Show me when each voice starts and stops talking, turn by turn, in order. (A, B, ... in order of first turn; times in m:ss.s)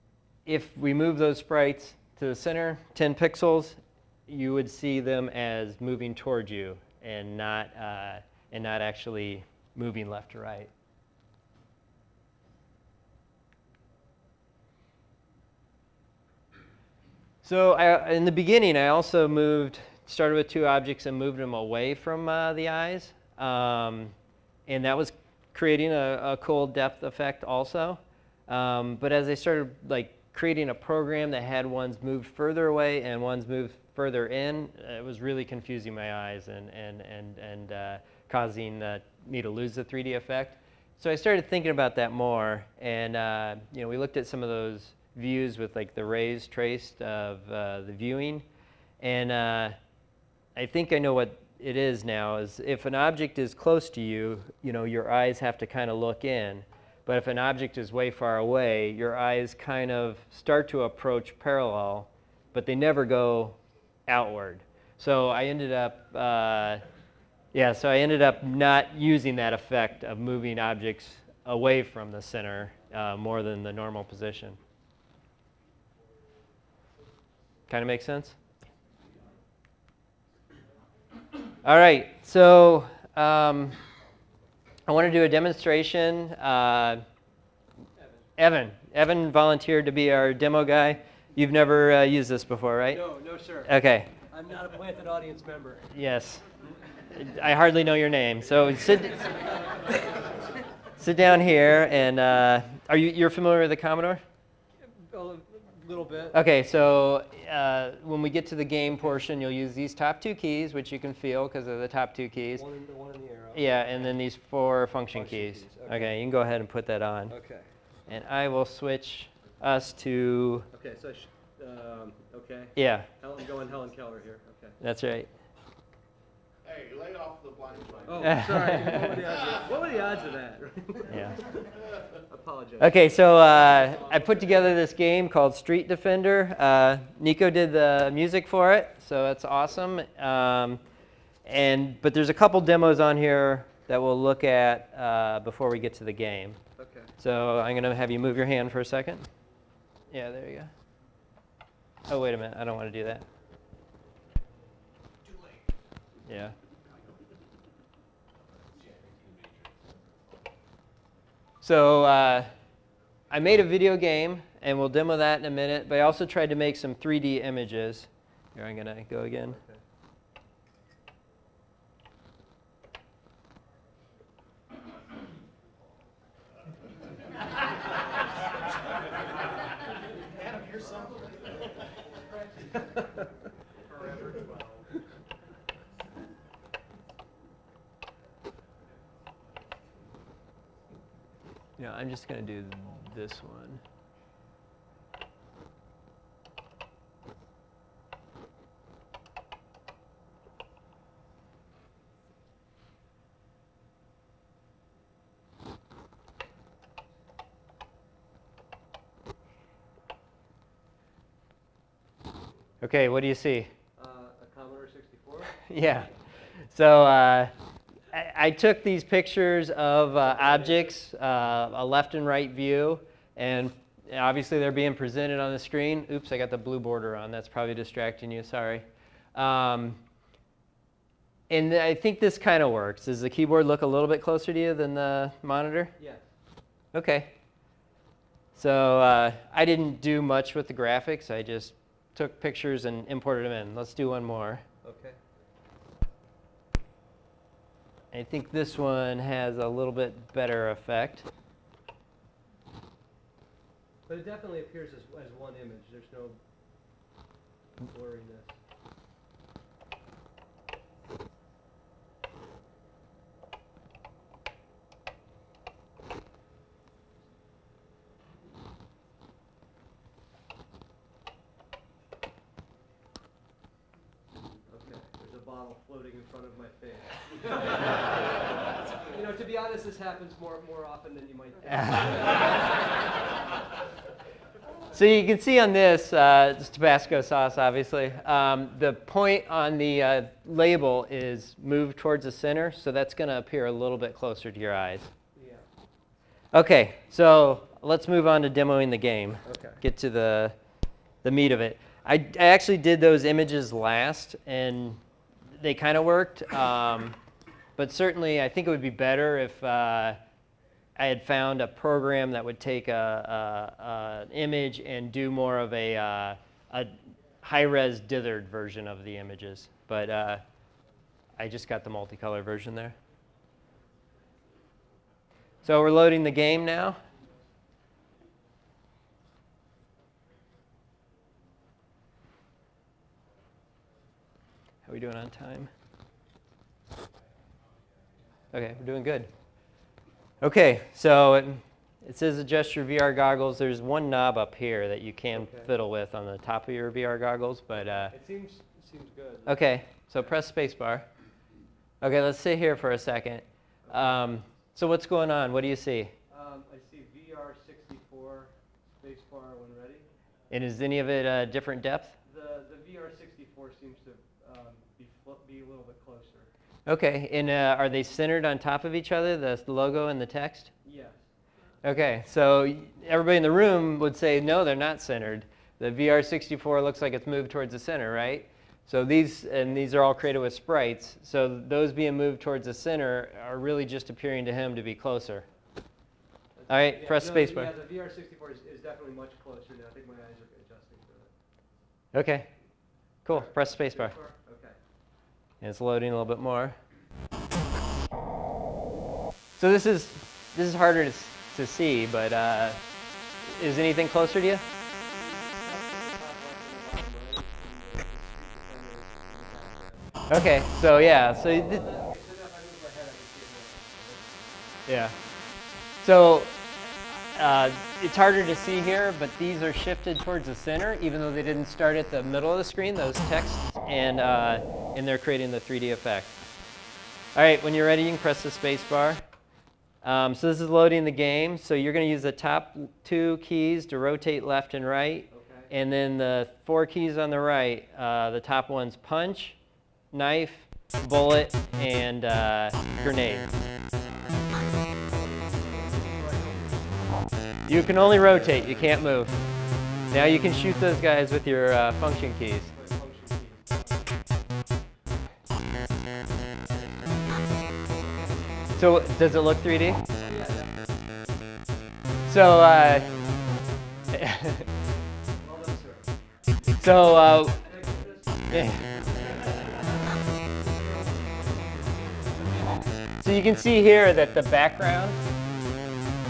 0:00.5-0:10.7 A
0:17.4-0:24.2 A
0:24.7-0:48.4 A
0:49.0-0:49.8 A
0:50.6-1:03.6 A
1:04.1-1:06.8 A
1:07.5-1:14.6 A
1:17.7-1:18.4 A
1:21.6-1:23.8 A
1:24.9-1:27.0 A
1:28.4-1:33.0 A
1:32.9-1:35.9 B
1:33.7-1:34.1 A
1:35.9-1:36.4 A
1:37.1-1:39.3 A
1:41.0-1:44.2 A
1:44.8-1:46.4 B
1:46.3-1:52.6 A
1:52.6-1:54.2 B
1:53.5-1:57.4 A
1:55.1-1:56.1 B
1:57.3-1:57.7 B
1:58.1-2:00.7 A
2:00.7-2:04.8 B
2:02.8-2:03.1 A
2:04.8-2:05.3 A
2:06.6-2:09.2 C
2:08.1-2:11.6 B
2:08.2-2:09.2 A
2:11.1-2:11.4 A
2:12.3-2:14.6 B
2:12.8-2:20.8 A
2:21.5-2:26.6 A
2:26.8-2:27.1 B
2:27.2-2:29.3 A
2:30.1-2:30.7 A
2:32.1-2:33.3 A
2:36.3-2:36.6 A
2:38.5-2:40.5 C
2:41.6-2:42.5 A
2:43.3-2:49.6 A
2:49.5-2:49.8 B
3:00.8-3:01.4 C
3:11.8-3:13.8 A
3:32.8-3:33.7 A
3:34.0-3:35.6 B
3:35.6-3:37.5 A
3:38.1-3:50.0 A
3:40.3-3:40.9 B
3:51.5-3:55.9 A
3:56.0-3:56.3 B
3:56.9-3:57.3 A
3:58.6-4:04.6 A
4:04.8-4:05.2 B
4:08.1-4:11.3 A
4:14.1-4:16.4 B
4:17.8-4:18.6 B
4:34.7-4:38.6 B
4:39.1-4:43.0 B
4:41.7-4:42.4 A
4:44.9-4:55.1 A
4:55.4-4:55.6 B
4:56.5-5:00.6 A
4:59.5-4:59.8 B
5:01.2-5:05.0 A
5:05.6-5:07.2 A
5:07.8-5:10.2 A
5:11.0-5:20.4 A
5:21.4-5:23.0 A
5:25.6-5:27.0 A
5:34.9-5:35.7 A
5:38.5-5:39.3 A
5:40.4-5:48.2 A
5:45.3-5:45.7 B
5:48.1-5:49.6 B
5:49.5-5:51.1 A
5:52.0-5:56.1 A
5:53.9-5:54.2 B
5:56.3-6:00.1 B
6:00.5-6:02.2 A
6:02.3-6:06.5 B
6:06.9-6:10.7 A
6:10.8-6:11.3 B
6:11.8-6:25.5 A
6:26.6-6:31.3 B
6:26.7-6:27.7 A
6:32.1-6:32.5 A
6:33.2-6:34.2 A
6:33.3-6:34.8 B
6:35.6-6:36.8 A
6:39.6-6:42.8 A
6:43.5-6:44.6 A
6:45.2-6:54.6 B
6:50.3-6:51.8 A
6:54.9-6:55.1 A
6:56.0-6:56.6 A
6:57.3-7:06.4 A
7:07.4-7:09.2 A
7:10.0-7:19.6 A
7:15.3-7:15.7 B
7:20.1-7:23.5 A
7:24.1-7:28.7 B
7:27.7-7:29.4 A
7:30.1-7:32.7 A
7:32.7-7:34.0 B
7:36.7-7:38.6 B
7:38.8-7:40.0 A
7:40.2-7:40.9 B
7:42.3-7:43.1 A
7:44.1-7:44.6 A
7:45.4-7:46.1 B
7:46.8-7:47.6 A
7:47.5-7:48.5 B
7:48.5-7:48.9 A
7:49.2-7:52.9 B
7:53.2-7:55.2 A